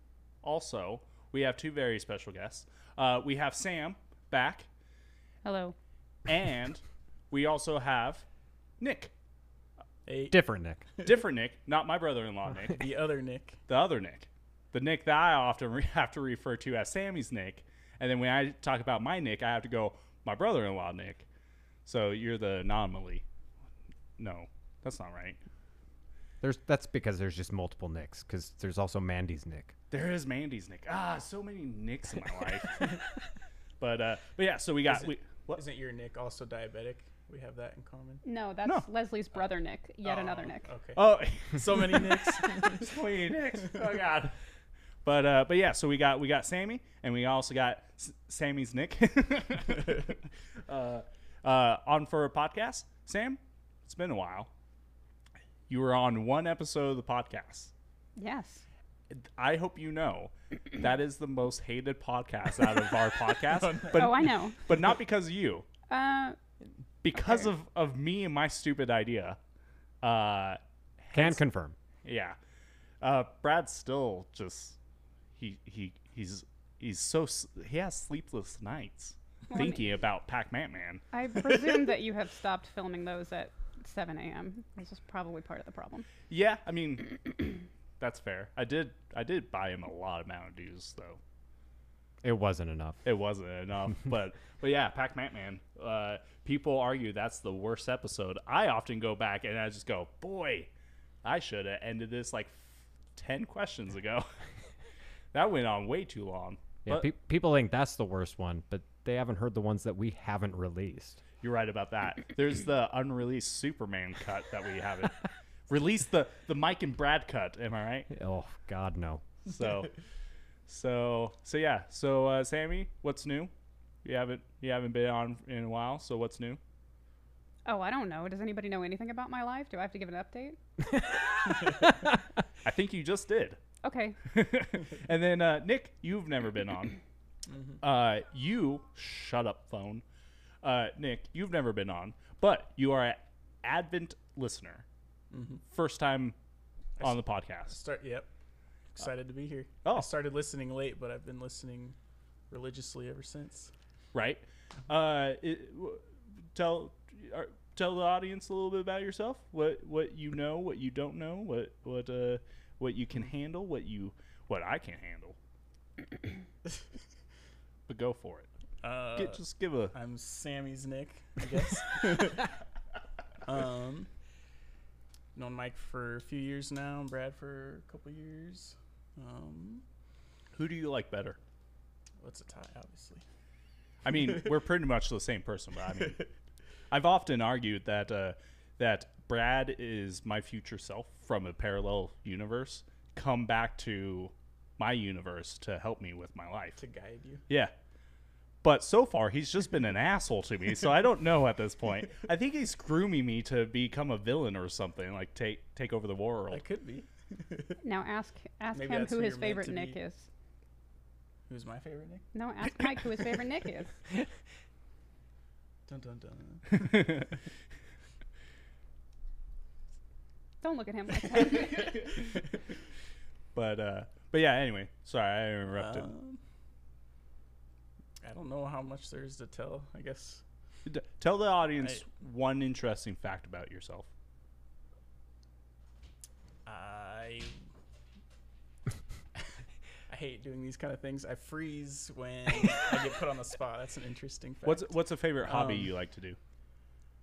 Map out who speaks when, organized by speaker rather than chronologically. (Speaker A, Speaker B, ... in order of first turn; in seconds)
Speaker A: 0.4-4.7, 6.2-8.2, 8.8-9.1, 11.0-12.8, 13.7-21.2, 21.8-23.2, 24.2-25.4, 29.9-33.0, 33.8-35.6, 40.9-44.4, 45.0-54.5, 55.7-57.7, 59.1-65.7, 67.0-69.4, 70.0-71.4, 72.0-72.4, 73.0-74.8, 75.4-81.0, 86.3-87.5, 88.0-91.2, 93.0-100.7, 101.2-104.3, 105.3-107.1, 111.4-118.1, 119.5-119.9, 120.7-123.5, 124.0-126.6, 132.6-133.6, 134.2-137.0, 137.8-140.0, 140.6-144.8, 145.7-146.3, 147.0-147.8, 149.8-150.1, 154.1-156.0, 156.5-165.3, 167.9-168.5, 169.2-169.9, 180.5-181.4, 184.0-186.2, 186.9-196.8, 197.5-197.7, 198.6-206.6, 223.5-226.1, 230.8-234.1, 244.7-246.4
Speaker B: 5.4-5.7, 38.2-40.7, 58.2-58.6, 63.9-64.6, 65.9-66.4, 67.1-67.5, 79.5-79.8, 81.1-86.1, 127.7-130.6, 133.8-134.2, 207.8-210.3, 212.3-214.0, 220.6-222.3
Speaker C: 10.1-10.4, 12.7-13.6, 34.9-38.2, 40.0-43.0, 63.5-64.2, 131.7-131.9, 137.5-137.8, 145.3-145.6, 147.0-148.3, 148.9-152.0, 152.5-153.7, 168.8-172.5, 173.4-174.1, 175.3-179.8, 182.2-183.2, 196.8-197.4, 206.5-207.8, 208.7-210.0, 211.5-212.3, 215.8-217.3, 221.9-222.3, 225.8-226.4, 228.2-230.4, 236.6-237.6, 240.1-245.9
Speaker D: 10.3-10.8, 26.4-29.7, 71.1-71.7, 92.2-93.0, 106.8-111.2, 118.1-119.2, 130.9-132.1